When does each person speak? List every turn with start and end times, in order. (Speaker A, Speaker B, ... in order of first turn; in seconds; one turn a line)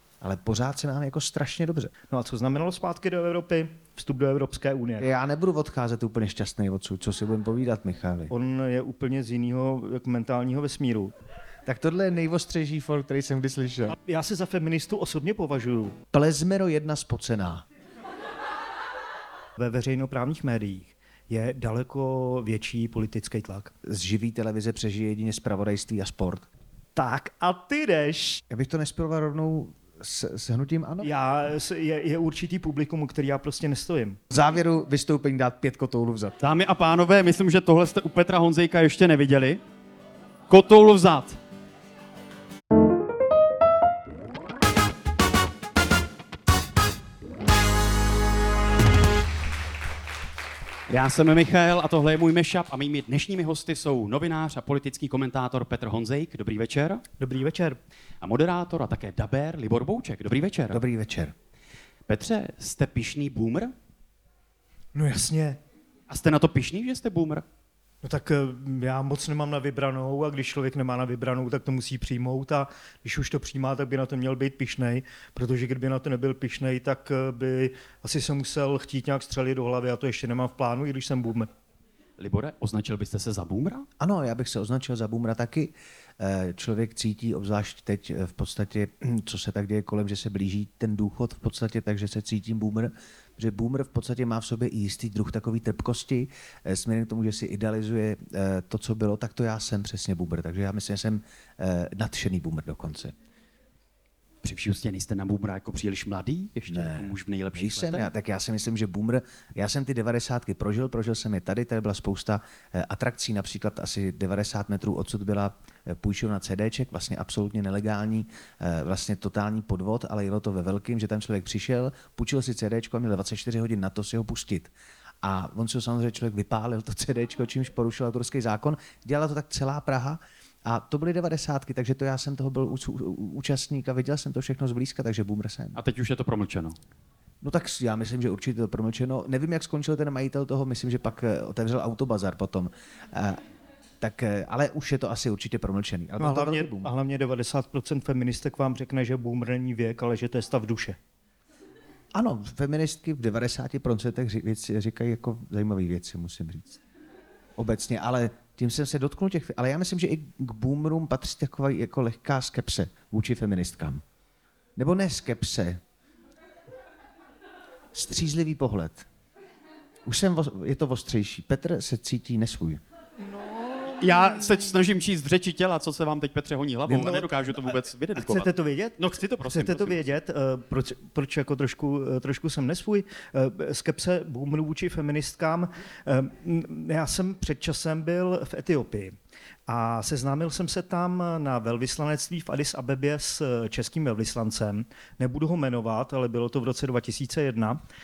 Speaker A: 0.2-1.9
Speaker B: 2.1-5.1
Speaker A: 5.0-8.3
Speaker B: 8.3-11.1
Speaker A: 11.7-14.0
Speaker B: 13.9-16.0
Speaker A: 16.1-17.6
Speaker B: 19.6-23.7
Speaker A: 23.8-26.5
Speaker B: 27.0-28.4
Speaker A: 28.5-31.1
Speaker B: 31.0-34.2
Speaker A: 34.3-36.4
Speaker C: 36.4-39.6
Speaker C: 40.5-41.4
Speaker C: 50.9-57.0
Speaker B: 57.2-57.8
Speaker C: 58.2-60.8
Speaker A: 60.7-61.3
Speaker C: 62.1-63.7
Speaker B: 64.9-65.6
Speaker C: 66.1-67.5
Speaker B: 68.0-81.5
Speaker C: 82.2-83.9
Speaker A: 84.0-103.2
Speaker C: 104.4-108.1
Speaker A: 106.7-124.7
Speaker A: 125.2-135.8
Speaker C: 135.8-136.8
Speaker A: 137.4-143.4
Speaker A: 144.0-146.9
Speaker B: 146.2-151.0
Speaker A: 152.1-156.8
Speaker A: 157.6-164.0
Speaker A: 164.8-165.8
Speaker A: 167.9-169.1
Speaker A: 170.1-172.8
Speaker B: 173.2-174.7
Speaker C: 174.0-180.0
Speaker A: 176.9-177.1
Speaker B: 177.0-177.3
Speaker B: 178.2-189.1
Speaker B: 189.7-197.8